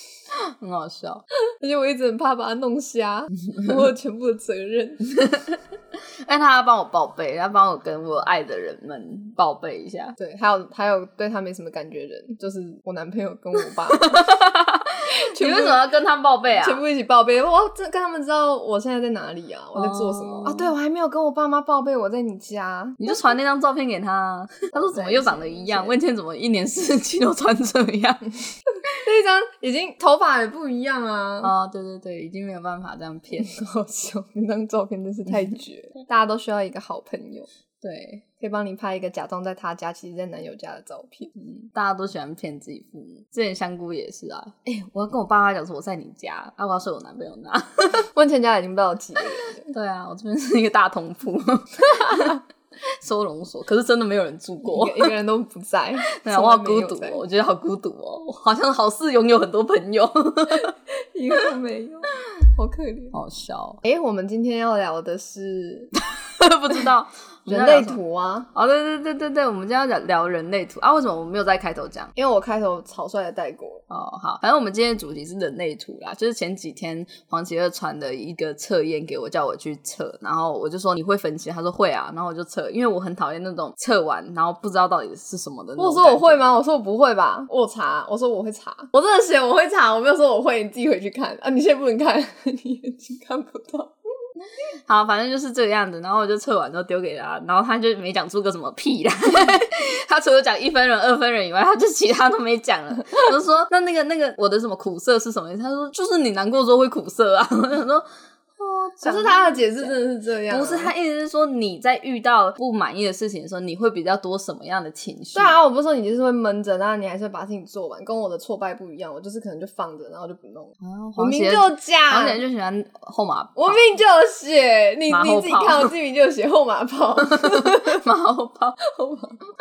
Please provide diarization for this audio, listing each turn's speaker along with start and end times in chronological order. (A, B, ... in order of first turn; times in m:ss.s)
0:00.3-0:01.2 A
0:01.6-0:05.2 B
0:05.2-0:05.6 A
0:06.2-0:10.2 A
0:10.2-0:14.2 B
0:13.9-0:16.8 A
0:15.3-0:15.9 B
0:16.5-0:23.2 B
0:19.7-0:20.7 A
0:23.0-0:28.3 A
0:24.7-0:26.0 B
0:28.9-0:31.5 B
0:31.4-0:33.5 A
0:33.4-0:37.5 B
0:37.8-0:38.2 A
0:38.4-0:41.3 B
0:41.4-0:48.1 A
0:48.1-0:49.7 B
0:49.7-0:55.1 A
0:54.6-0:57.2 B
0:56.1-1:00.7 A
1:00.5-1:03.2 B
1:03.1-1:03.8 A
1:03.8-1:05.9 B
1:06.0-1:08.0 A
1:07.5-1:08.5 B
1:08.5-1:12.1 A
1:12.2-1:13.8 B
1:13.9-1:26.4 A
1:25.8-1:33.9 B
1:34.8-1:48.0 A
1:48.6-1:49.9 A
1:49.0-1:50.9 B
1:50.5-1:55.6 A
1:55.3-2:02.4 B
2:00.8-2:03.8 A
2:03.6-2:08.0 B
2:05.1-2:05.9 A
2:07.3-2:08.8 A
2:08.8-2:09.5 B